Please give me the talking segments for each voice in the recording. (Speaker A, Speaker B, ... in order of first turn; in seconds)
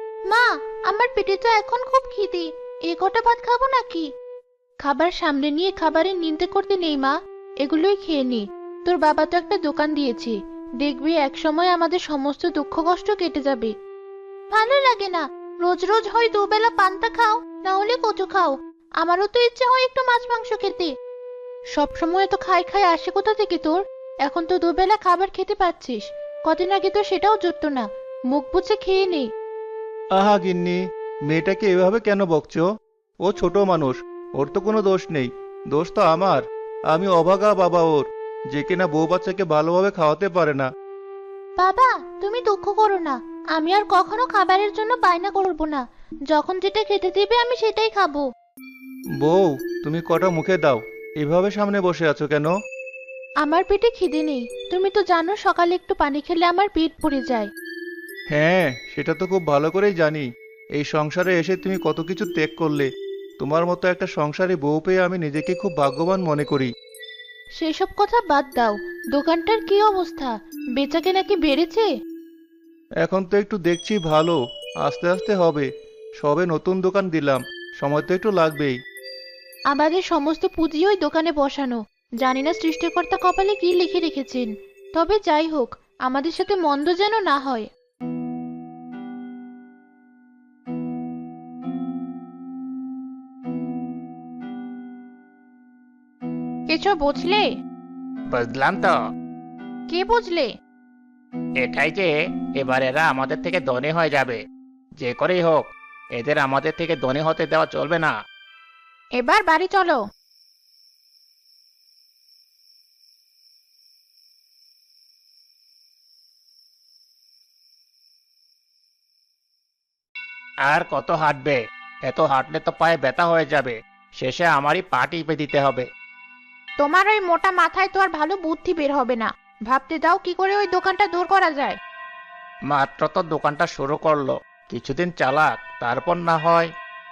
Speaker A: 0.3-4.1, 4.8-13.7, 14.5-20.9, 21.7-29.3, 41.6-48.3, 53.4-57.5, 67.6-71.9, 79.7-87.7, 96.7-97.4, 99.9-100.5, 109.2-110.0, 126.8-131.8
Speaker B: 30.1-32.7, 33.2-40.7, 49.2-52.5, 58.3-60.3, 60.8-62.9, 63.4-66.7, 73.0-75.7, 76.2-78.8
Speaker C: 98.3-98.9, 101.6-104.4, 105.0-108.1, 120.7-125.8, 132.7-136.7